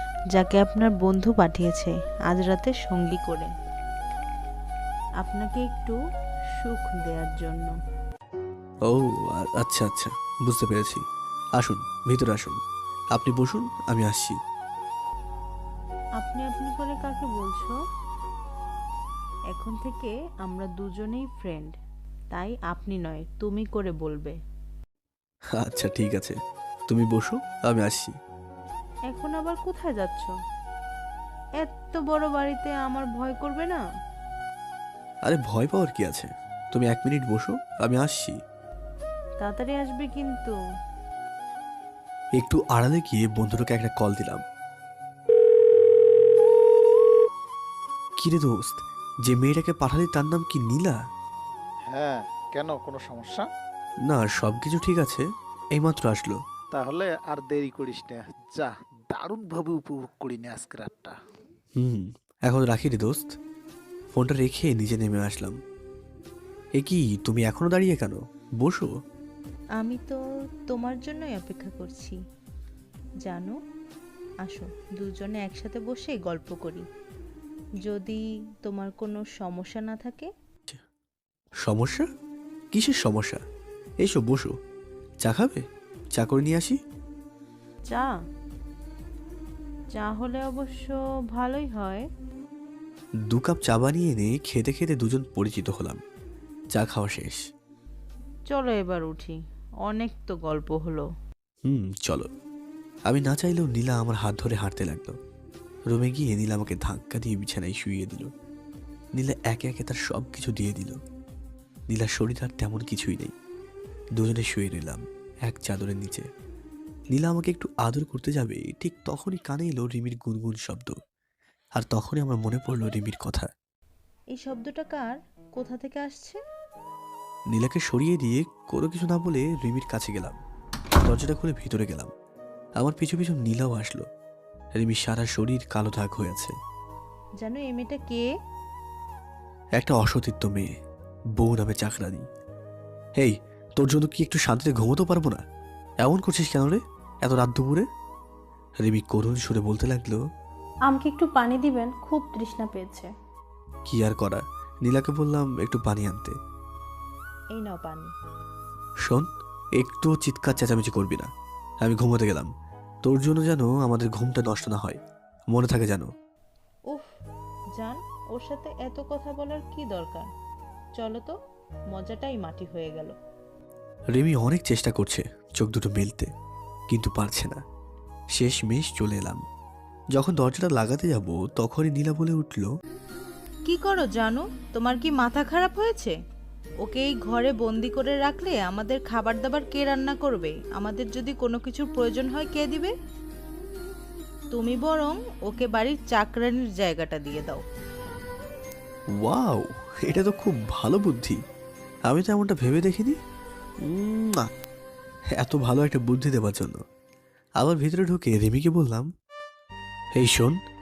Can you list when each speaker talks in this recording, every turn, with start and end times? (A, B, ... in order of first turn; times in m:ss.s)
0:00.3-0:03.5 A
0:05.2-0:06.0 A
0:06.6-0:07.7 A
0:08.9-0:11.0 B
0:11.6-0:12.6 B
0:13.1-0:14.4 B
0:16.2-0:17.7 A
0:19.5-0:21.7 A
0:22.3-0:24.4 A
0:25.6-0:26.3 B
0:26.9-0:28.1 B
0:29.1-0:30.3 A
0:31.6-0:33.8 A
0:35.2-0:38.4 B
0:39.4-0:40.5 A
0:42.4-0:44.4 B
0:48.2-0:51.0 B
0:51.9-0:53.5 C
0:54.0-0:56.4 B
0:56.7-1:01.1 C
1:01.8-1:03.3 B
1:04.1-1:05.6 B
1:06.7-1:08.9 B
1:09.8-1:10.2 A
1:10.7-1:12.2 A
1:13.2-1:13.5 A
1:14.4-1:16.8 A
1:17.8-1:20.3 A
1:21.6-1:22.0 B
1:22.7-1:23.4 B
1:24.0-1:24.5 B
1:25.2-1:25.6 B
1:26.2-1:26.8 B
1:29.9-1:32.0 A
1:33.3-1:36.0 B
1:36.7-1:37.4 B
1:38.5-1:39.3 A
1:39.8-1:41.1 A
1:41.6-1:42.3 B
1:43.1-1:45.1 B
1:45.9-1:48.3 B
1:49.2-1:51.0 B
1:51.9-1:53.3 B
1:54.2-1:56.2 B
1:57.1-2:00.9 B
2:01.8-2:03.5 B
2:04.3-2:06.4 A
2:07.5-2:10.4 B
2:11.0-2:12.1 B
2:12.8-2:14.0 B
2:14.8-2:16.5 B
2:17.4-2:18.3 A
2:19.8-2:20.7 B
2:21.4-2:22.2 B
2:23.2-2:25.4 B
2:26.0-2:27.8 B
2:28.8-2:30.2 B
2:30.8-2:33.1 D
2:33.9-2:36.3 B
2:37.5-2:38.1 A
2:39.8-2:41.3 B
2:41.8-2:42.5 B
2:43.0-2:45.0 B
2:45.5-2:46.1 B
2:47.8-2:50.3 A
2:51.0-2:51.3 A
2:51.9-2:53.1 A
2:54.1-2:56.3 B
2:56.9-2:57.6 B
2:58.3-2:59.4 B
3:00.1-3:02.7 B
3:03.6-3:06.1 A
3:06.8-3:12.9 A
3:14.5-3:17.6 A
3:19.2-3:21.4 B
3:22.1-3:23.2 B
3:23.8-3:24.5 B
3:25.4-3:26.8 B
3:27.6-3:29.1 B
3:30.2-3:30.5 B